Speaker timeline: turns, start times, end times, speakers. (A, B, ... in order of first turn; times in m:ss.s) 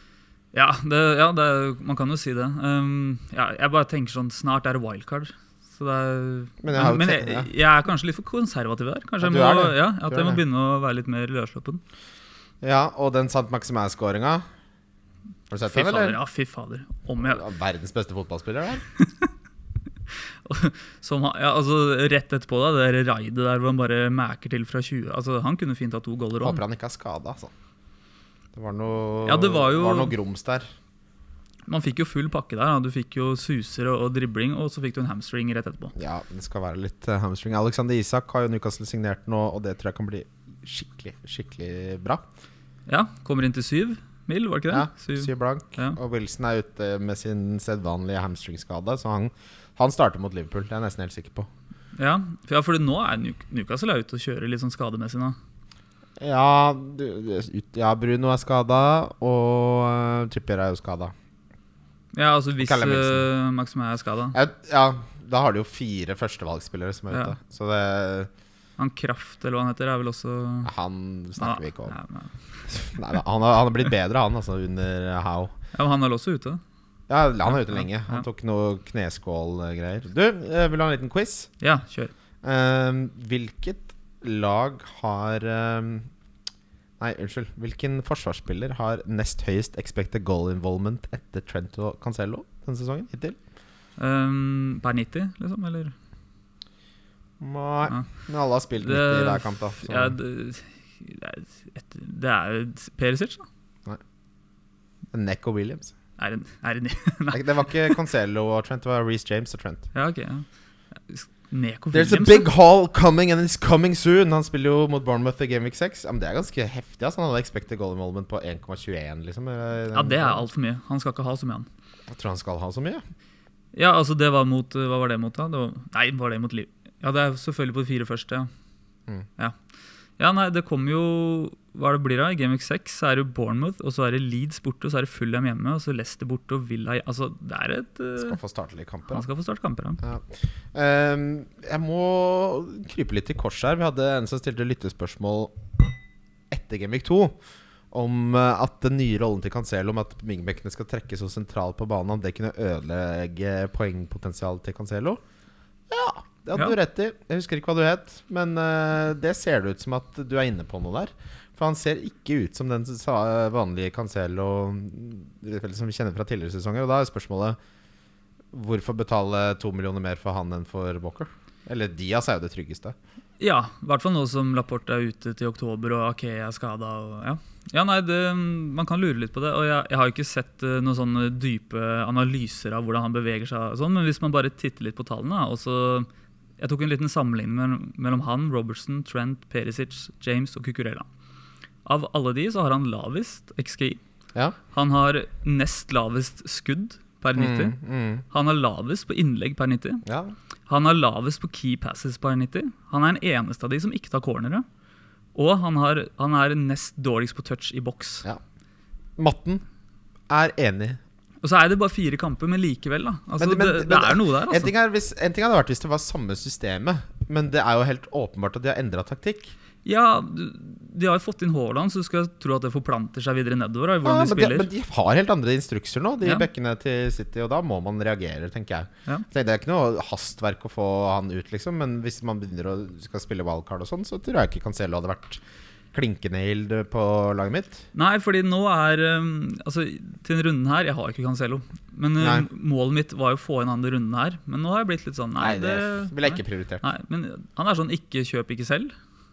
0:00.5-0:11.8 A
0:06.6-0:07.5 B
0:09.2-0:10.4 B
0:12.6-0:14.4 B
0:15.5-0:16.2 B
0:15.6-0:17.4 A
0:17.2-0:18.8 B
0:20.4-0:26.6 A
0:26.4-0:27.5 B
0:28.5-0:30.7 B
0:29.2-0:30.2 A
0:31.7-0:35.9 A
0:36.0-0:42.3 B
0:42.9-0:46.0 A
0:44.7-0:51.5 B
0:52.0-0:55.4 A
0:56.2-1:01.1 B
1:02.1-1:04.4 A
1:02.6-1:03.2 B
1:04.3-1:08.3 B
1:08.8-1:10.7 A
1:10.6-1:12.0 B
1:11.4-1:12.3 A
1:12.7-1:15.5 B
1:15.7-1:16.6 A
1:17.1-1:21.5 B
1:17.5-1:18.2 A
1:21.6-1:22.1 A
1:22.4-1:26.1 B
1:27.0-1:33.4 B
1:34.0-1:35.9 A
1:37.4-1:40.1 B
1:38.8-1:43.4 A
1:45.1-1:45.9 B
1:46.2-1:48.0 A
1:47.3-1:49.9 B
1:49.9-1:50.4 A
1:51.1-1:52.5 A
1:51.9-2:00.4 B
1:59.9-2:01.7 A
2:02.1-2:03.0 B
2:03.7-2:08.5 A
2:10.2-2:18.4 A
2:18.2-2:19.2 B
2:19.1-2:20.0 A
2:20.0-2:25.6 B
2:26.5-2:27.4 B
2:27.9-2:35.2 B
2:35.9-2:47.6 B
2:48.5-2:52.9 B
2:53.4-3:06.1 A
3:06.6-3:11.0 A
3:11.8-3:14.0 A
3:14.7-3:17.8 A
3:17.4-3:18.2 B
3:18.3-3:20.0 A
3:20.0-3:20.3 B
3:20.7-3:24.6 A
3:25.3-3:28.2 A
3:29.2-3:29.6 B
3:30.3-3:31.0 B
3:31.4-3:34.7 A
3:33.3-3:39.5 B
3:39.8-3:44.7 A
3:44.0-3:55.4 B
3:55.9-3:57.8 B
3:57.9-4:08.9 A
4:02.2-4:02.5 B
4:05.4-4:06.8 B